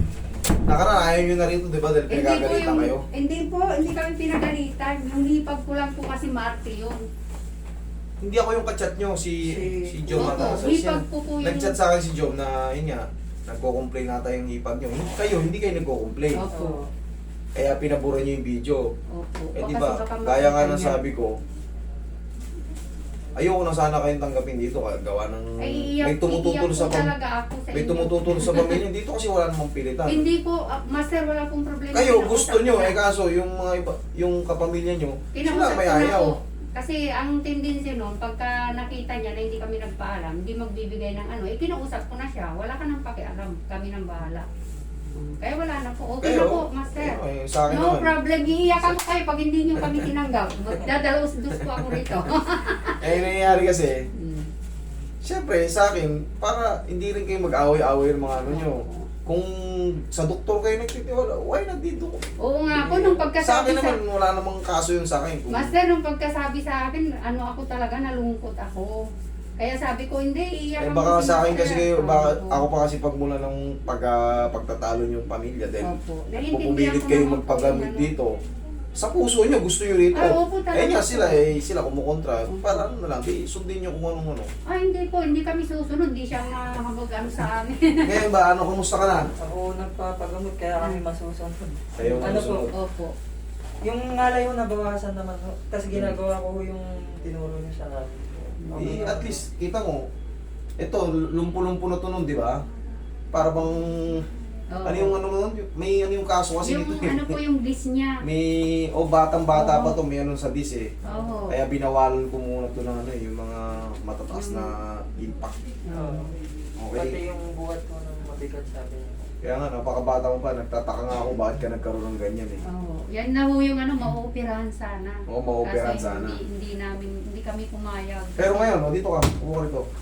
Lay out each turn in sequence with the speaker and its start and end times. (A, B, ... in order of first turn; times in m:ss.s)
0:00.6-0:03.0 A
0:02.1-0:07.0 B
0:08.2-0:16.4 A
0:09.4-0:10.6 C
0:10.2-0:11.8 B
0:16.4-0:16.8 B
0:16.5-0:16.9 C
0:17.6-0:18.8 A
0:19.1-0:21.0 B
0:19.6-0:21.4 A
0:23.4-0:27.1 A
0:25.6-0:28.8 B
0:27.7-0:30.3 A
0:30.0-0:33.0 B
0:31.9-0:36.3 A
0:35.3-0:44.5 B
0:45.1-0:47.2 B
0:46.2-0:48.1 A
0:47.7-0:54.5 B
0:53.0-0:54.0 A
0:55.2-1:02.2 A
0:58.4-0:59.1 B
1:02.4-1:04.0 B
1:02.7-1:05.7 A
1:05.5-1:09.0 B
1:09.6-1:12.6 B
1:10.8-1:18.3 A
1:15.8-1:18.1 B
1:19.0-1:24.5 A
1:20.1-1:21.4 B
1:22.5-1:22.8 B
1:24.7-1:28.3 B
1:28.0-1:29.3 A
1:29.4-1:32.7 C
1:32.0-1:32.7 A
1:32.0-1:33.1 B
1:33.8-1:39.4 C
1:35.9-1:36.2 A
1:38.6-1:39.1 B
1:38.7-1:40.1 A
1:40.8-1:42.6 A
1:43.3-1:44.2 A
1:44.7-1:45.2 B
1:44.8-1:47.3 A
1:46.6-1:48.2 B
1:48.2-1:50.9 A
1:49.5-1:50.0 B
1:51.1-1:51.6 B
1:51.5-1:55.6 A
1:54.3-1:54.7 B
1:55.9-1:56.3 B
1:55.9-1:56.3 C
1:56.8-1:57.2 A
1:56.9-1:59.3 C
1:59.4-2:02.6 A
2:02.7-2:08.8 B
2:05.3-2:06.4 A
2:08.4-2:09.9 A